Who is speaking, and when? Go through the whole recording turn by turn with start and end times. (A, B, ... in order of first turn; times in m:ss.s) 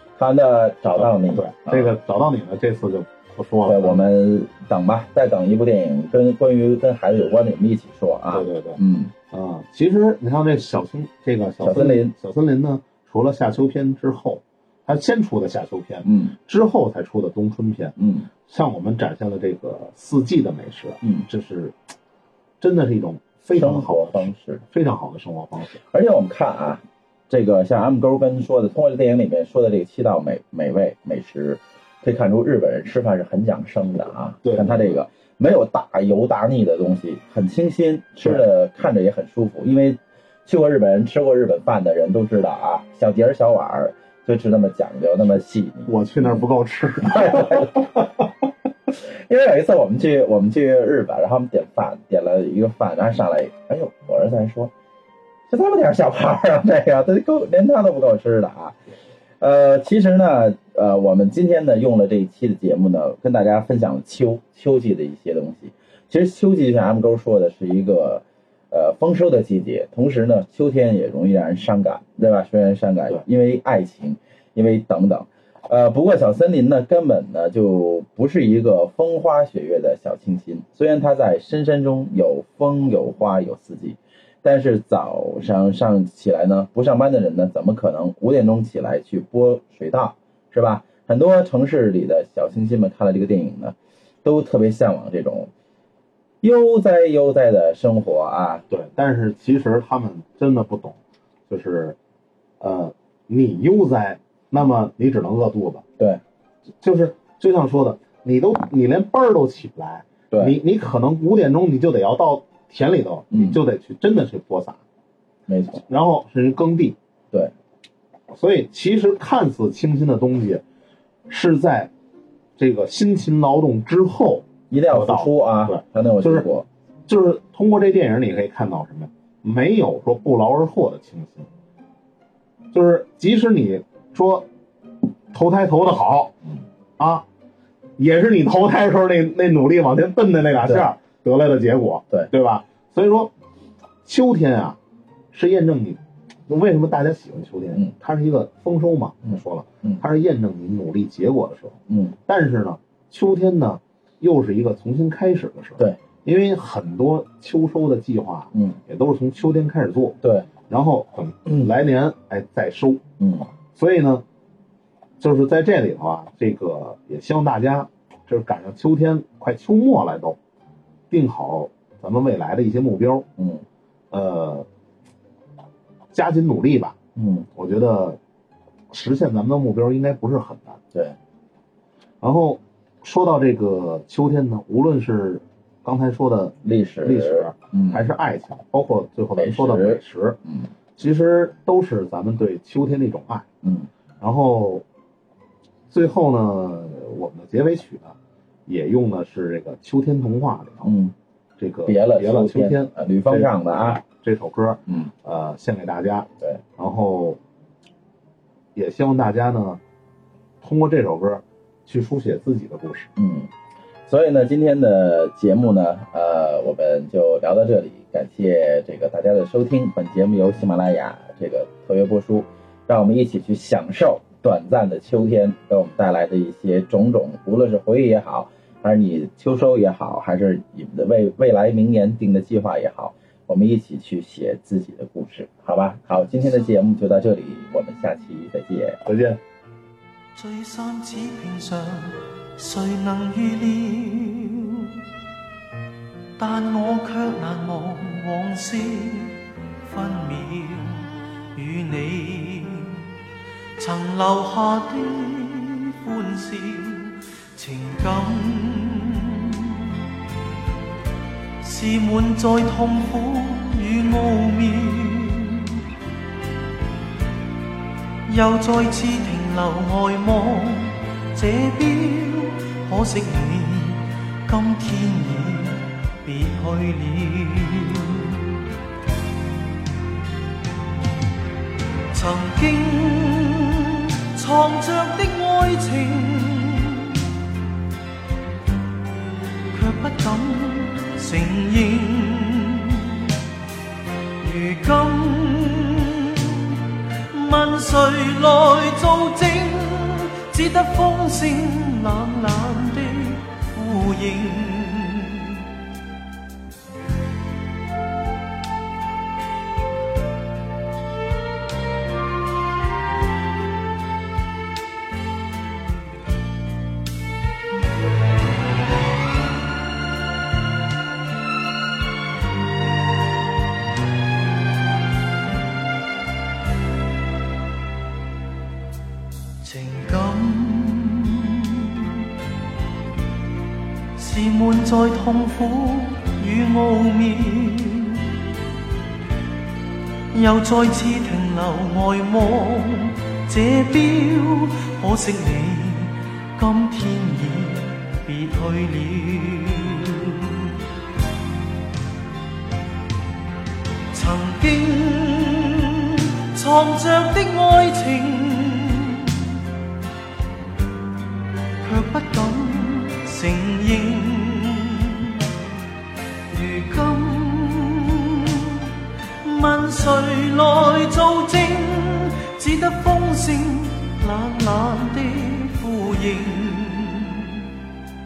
0:00.2-0:01.9 A
0:01.0-0:04.1 B
0:03.7-0:09.1 A
0:08.3-0:18.0 B
0:11.6-0:12.2 A
0:16.1-0:16.4 A
0:18.0-0:18.3 A
0:18.5-0:21.8 B
0:22.6-0:25.8 B
0:23.5-0:24.6 A
0:25.8-0:46.4 A
0:34.4-0:35.0 B
0:45.9-0:48.1 B
0:47.0-0:48.0 A
0:49.0-0:54.7 A
0:55.5-0:58.8 A
0:59.4-1:35.5 A
1:36.4-1:38.6 A
1:38.7-1:41.0 B
1:41.5-1:42.0 B
1:42.6-1:45.8 B
1:46.8-1:54.8 B
1:50.3-1:50.6 A
1:53.3-1:53.6 A
1:55.5-1:55.8 A
1:55.9-1:57.0 B
1:58.3-2:00.6 B
2:01.3-2:01.9 B
2:02.6-2:06.5 B
2:04.7-2:06.7 A
2:07.1-2:11.5 B
2:12.7-2:14.5 B
2:15.3-2:16.4 B
2:17.0-2:17.2 B
2:18.0-2:23.3 B
2:24.0-2:24.8 B
2:25.3-2:40.2 B
2:29.3-2:30.0 A
2:31.9-2:32.2 A
2:38.5-2:38.8 A
2:40.2-2:40.5 A
2:40.7-2:43.0 B
2:43.2-2:43.5 A
2:43.7-2:44.2 B
2:45.2-2:50.4 B
2:51.1-2:53.3 B
2:53.4-2:53.6 A
2:54.1-2:54.7 B
2:56.1-2:57.0 B
2:57.2-2:57.5 A
2:57.6-2:58.2 B
2:58.9-3:00.8 B
3:02.2-3:10.4 B
3:06.6-3:08.0 A
3:09.4-3:10.7 A
3:11.0-3:13.5 B
3:13.6-3:13.9 A
3:14.2-3:14.8 B
3:15.9-3:18.2 B
3:18.7-3:20.9 B
3:20.8-3:21.2 A
3:21.6-3:27.4 B
3:21.8-3:24.0 A
3:28.8-3:29.8 B
3:30.6-3:33.1 B
3:33.2-3:33.5 A
3:34.1-3:59.0 A
3:59.0-3:59.4 B
4:00.4-4:04.9 C
4:06.4-4:13.1 C
4:13.8-4:19.9 C
4:21.6-4:25.8 C
4:28.3-4:38.5 C
4:42.1-4:47.2 C
4:49.7-4:53.4 C
4:54.4-5:05.6 C
5:29.6-5:32.2 C
5:34.2-5:38.4 C
5:40.3-5:50.7 C
5:54.1-5:59.6 C
6:01.8-6:05.5 C
6:06.5-6:17.7 C